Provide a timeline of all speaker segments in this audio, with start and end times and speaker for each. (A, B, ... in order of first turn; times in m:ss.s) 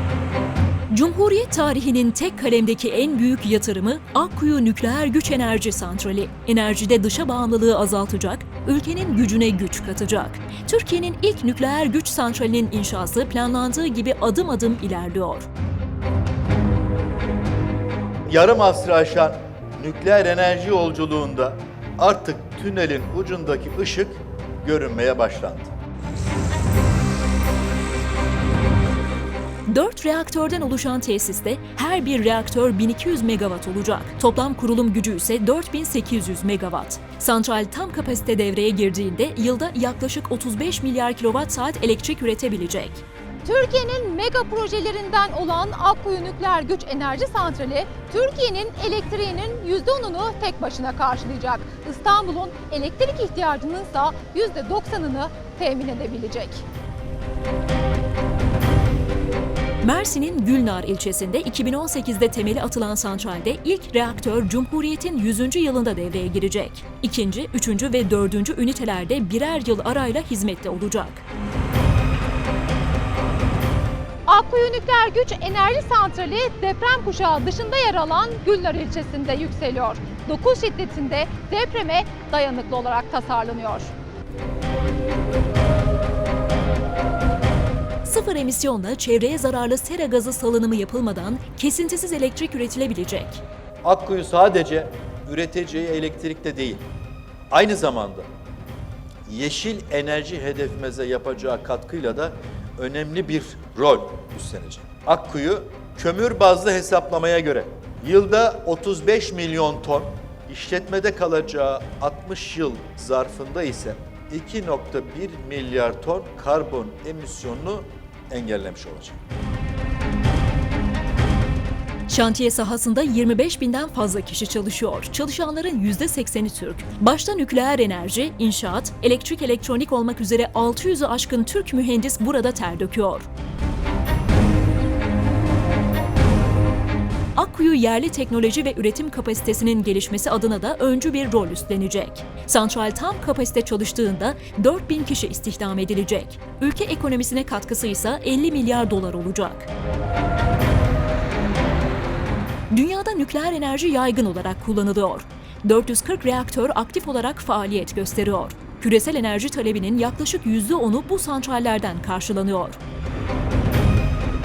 0:00.9-0:15.5 A
0:18.3-0:25.7 B
0:29.7-0:43.0 A
0:43.4-0:56.6 C
0:59.8-1:11.2 A
1:14.3-1:23.9 C
1:28.0-1:33.4 A
1:33.8-1:36.8 B
1:37.5-1:38.3 B
1:39.2-1:59.2 B
2:02.1-2:13.3 A
2:17.3-2:29.7 A
2:32.7-2:42.8 A